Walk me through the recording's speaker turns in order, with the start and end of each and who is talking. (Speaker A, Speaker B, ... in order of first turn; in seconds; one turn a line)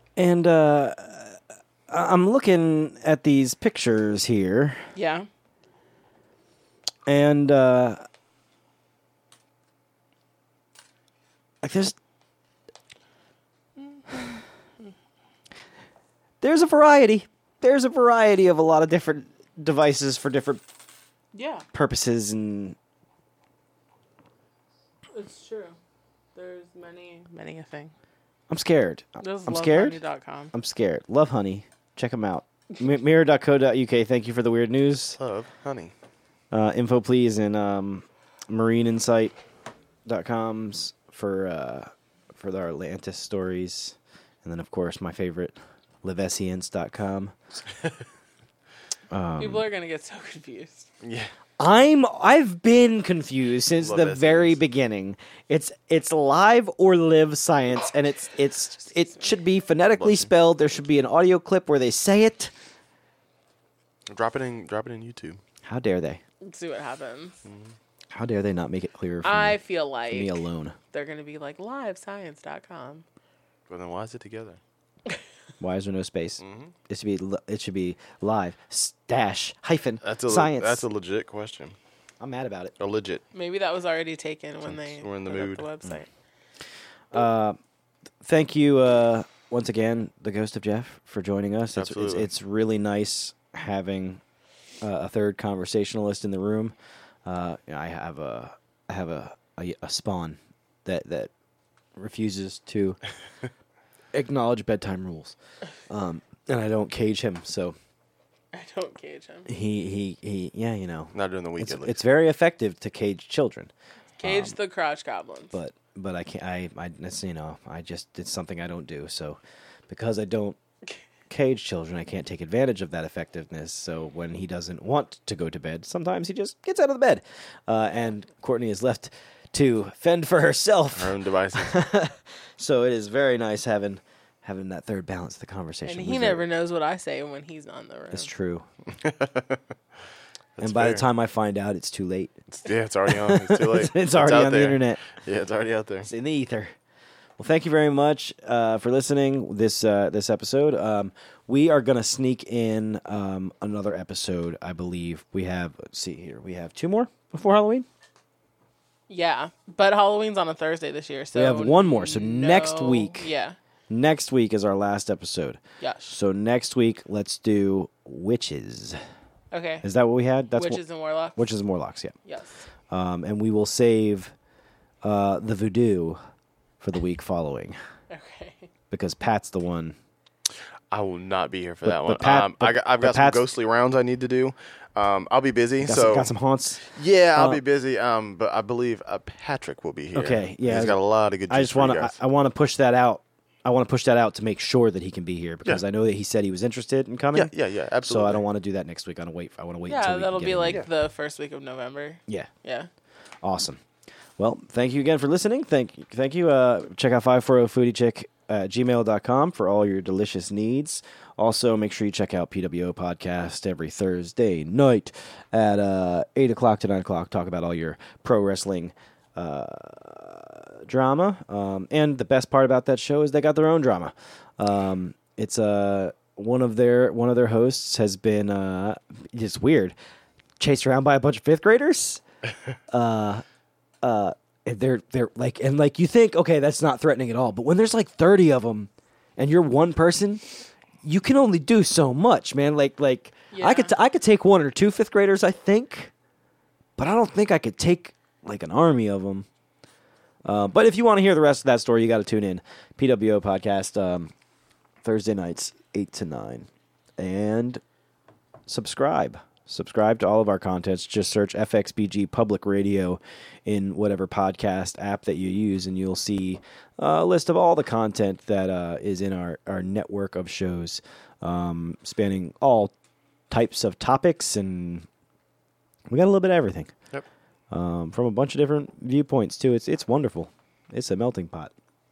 Speaker A: 0.1-4.8
Speaker B: 4.9-5.3
Speaker A: 7.0-8.0
Speaker A: 11.6-12.0
Speaker B: 13.8-14.4
Speaker A: 16.4-20.6
Speaker B: 21.3-21.6
Speaker A: 21.7-22.8
Speaker B: 25.1-25.8
Speaker B: 26.3-27.9
Speaker A: 28.5-30.0
Speaker B: 29.2-30.5
Speaker A: 30.5-35.2
Speaker C: 35.2-35.9
Speaker A: 36.5-39.3
Speaker A: 40.0-47.3
Speaker A: 49.1-49.6
Speaker B: 49.4-50.9
Speaker C: 51.0-51.3
Speaker A: 51.6-62.5
Speaker C: 53.8-54.6
Speaker C: 60.0-60.3
Speaker C: 64.1-65.4
Speaker A: 65.6-66.2
Speaker B: 66.4-67.4
Speaker C: 67.5-67.7
Speaker A: 68.1-69.6
Speaker B: 69.2-70.4
Speaker A: 70.1-70.8
Speaker B: 70.9-73.0
Speaker C: 73.7-74.6
Speaker A: 75.6-80.8
Speaker C: 76.4-76.7
Speaker C: 80.0-81.8
Speaker A: 82.2-82.7
Speaker C: 82.8-83.2
Speaker B: 83.3-86.1
Speaker C: 84.7-85.6
Speaker A: 87.1-87.6
Speaker A: 88.2-94.2
Speaker C: 91.7-92.3
Speaker A: 94.8-101.3
Speaker A: 102.0-103.0
Speaker A: 104.1-105.3
Speaker A: 105.9-107.7
Speaker B: 108.5-109.5
Speaker A: 109.5-114.5
Speaker C: 111.1-112.0
Speaker B: 114.2-115.5
Speaker A: 115.5-120.6
Speaker A: 121.3-136.4
Speaker C: 130.9-131.8
Speaker B: 135.8-138.3
Speaker A: 138.1-138.7
Speaker C: 139.0-139.6
Speaker C: 140.6-141.0
Speaker A: 140.6-142.4
Speaker C: 142.5-146.1
Speaker A: 143.1-145.0
Speaker A: 146.0-146.7
Speaker A: 147.4-157.9
Speaker B: 159.1-163.6
Speaker A: 161.3-163.3
Speaker A: 163.9-169.0
Speaker B: 165.8-166.1
Speaker B: 169.5-169.9
Speaker A: 169.8-170.8
Speaker B: 170.5-171.5
Speaker A: 171.4-172.1
Speaker B: 172.2-172.7
Speaker A: 172.9-174.3
Speaker A: 175.0-176.2
Speaker A: 176.8-177.8
Speaker B: 178.1-178.7
Speaker A: 178.9-179.9
Speaker C: 180.9-186.3
Speaker A: 181.8-183.5
Speaker A: 185.8-186.8
Speaker C: 186.8-192.2
Speaker A: 187.3-187.6
Speaker A: 190.1-191.0
Speaker A: 191.5-200.8
Speaker C: 197.3-198.4
Speaker B: 199.9-202.9
Speaker A: 203.4-203.8
Speaker A: 204.4-229.9
Speaker A: 230.6-232.2
Speaker A: 232.9-233.4
Speaker A: 234.0-240.4
Speaker A: 241.0-246.1
Speaker B: 243.5-243.9
Speaker A: 247.0-249.5
Speaker A: 250.4-254.3
Speaker A: 255.0-257.8
Speaker A: 258.7-272.9
Speaker A: 273.5-275.1
Speaker A: 276.1-276.9
Speaker A: 277.7-281.7